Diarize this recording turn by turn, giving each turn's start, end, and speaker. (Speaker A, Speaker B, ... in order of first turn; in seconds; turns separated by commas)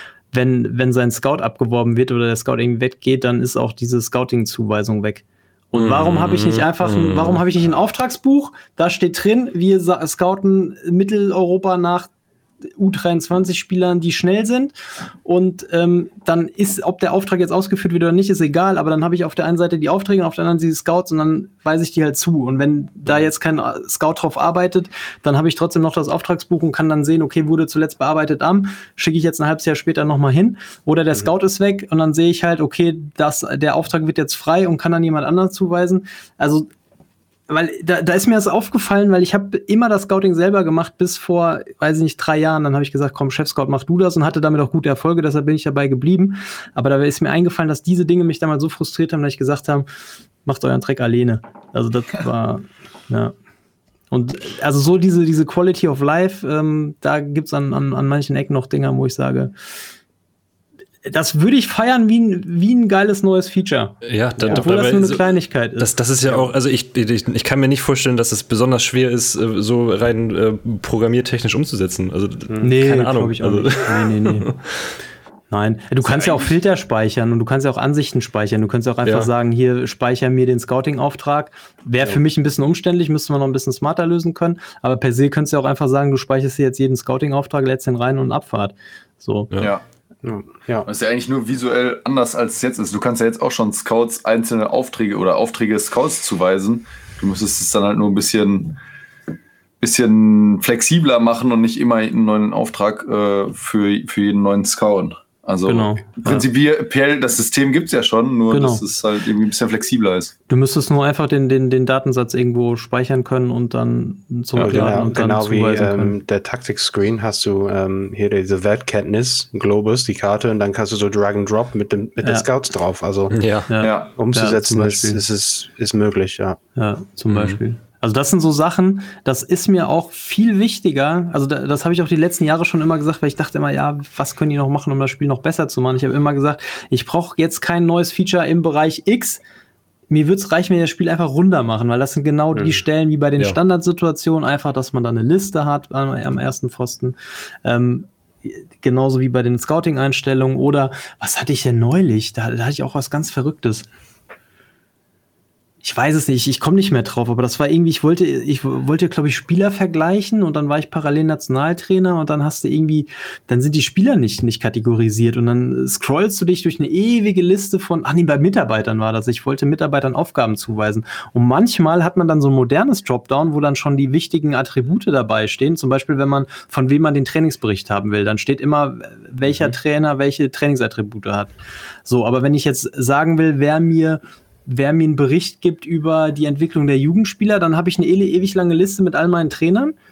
Speaker A: 0.3-12.1, Speaker B: 5.7-7.4, Speaker A: 12.8-14.7, Speaker A: 15.2-36.7, Speaker A: 37.5-49.9, Speaker A: 50.5-53.3, Speaker A: 54.1-59.5, Speaker A: 61.0-65.9, Speaker B: 64.0-74.9, Speaker A: 72.6-74.5, Speaker A: 75.5-89.5, Speaker C: 76.0-76.5, Speaker B: 79.0-79.3, Speaker D: 90.2-90.9, Speaker C: 90.8-98.8, Speaker C: 99.8-110.3, Speaker A: 105.7-106.5, Speaker A: 108.5-108.8, Speaker A: 110.5-116.2, Speaker D: 114.6-123.4, Speaker B: 123.3-123.7, Speaker A: 123.7-125.2, Speaker C: 123.8-124.1, Speaker D: 124.2-126.6, Speaker A: 126.8-139.4, Speaker B: 127.3-127.6, Speaker A: 140.1-153.9, Speaker D: 142.5-142.8, Speaker A: 155.8-181.5, Speaker A: 182.1-189.9